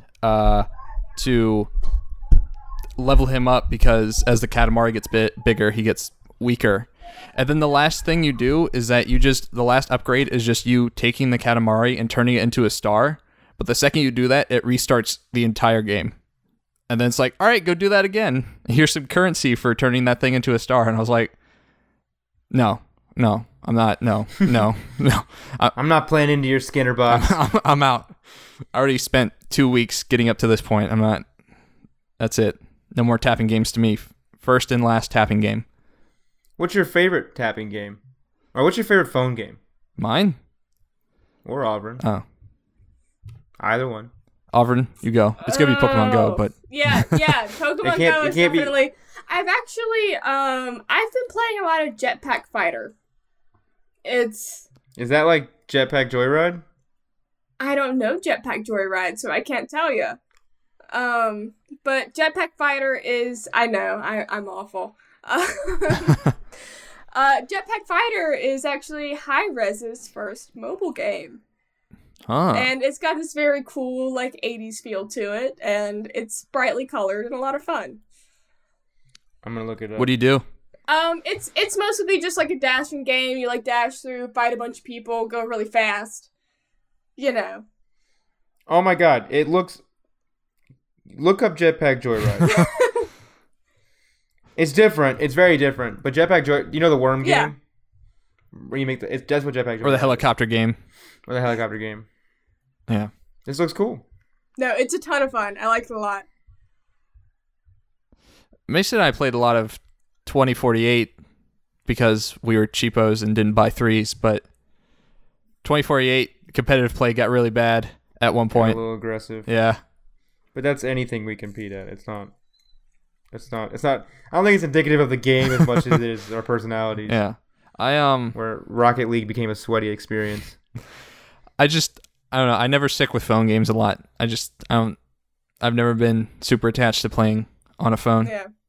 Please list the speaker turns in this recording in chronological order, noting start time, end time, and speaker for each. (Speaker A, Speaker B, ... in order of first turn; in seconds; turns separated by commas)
Speaker A: 0.2-1.7, Speaker A: 3.0-16.1, Speaker A: 16.9-21.3, Speaker A: 22.5-25.7, Speaker B: 25.8-27.4, Speaker A: 27.1-28.1, Speaker A: 28.7-31.2, Speaker A: 32.2-35.6, Speaker B: 36.6-38.0, Speaker B: 38.5-39.6, Speaker A: 40.0-40.4, Speaker B: 41.4-42.0, Speaker B: 43.6-44.1, Speaker A: 44.5-47.3, Speaker C: 45.4-52.9, Speaker B: 47.8-48.7, Speaker C: 54.0-54.6, Speaker B: 55.0-56.6, Speaker C: 57.6-60.2, Speaker C: 60.9-66.3, Speaker C: 67.1-71.4, Speaker A: 72.3-72.7, Speaker C: 72.5-78.0, Speaker B: 79.4-80.1, Speaker A: 80.0-80.4, Speaker C: 80.9-86.3, Speaker C: 87.2-87.6, Speaker B: 88.7-89.8, Speaker B: 91.1-92.7, Speaker C: 92.4-93.1, Speaker B: 94.5-97.6, Speaker C: 97.2-97.5, Speaker B: 98.5-100.2, Speaker A: 99.8-100.8, Speaker B: 101.3-102.1, Speaker B: 103.5-104.0, Speaker C: 104.6-106.2, Speaker A: 108.7-111.1, Speaker A: 111.8-114.4, Speaker A: 115.6-118.8, Speaker B: 118.5-119.5, Speaker A: 119.4-119.8, Speaker B: 120.5-122.3, Speaker B: 123.3-127.2, Speaker A: 127.1-128.3, Speaker B: 128.3-130.6, Speaker A: 131.6-134.9, Speaker A: 135.6-138.3, Speaker C: 138.2-138.5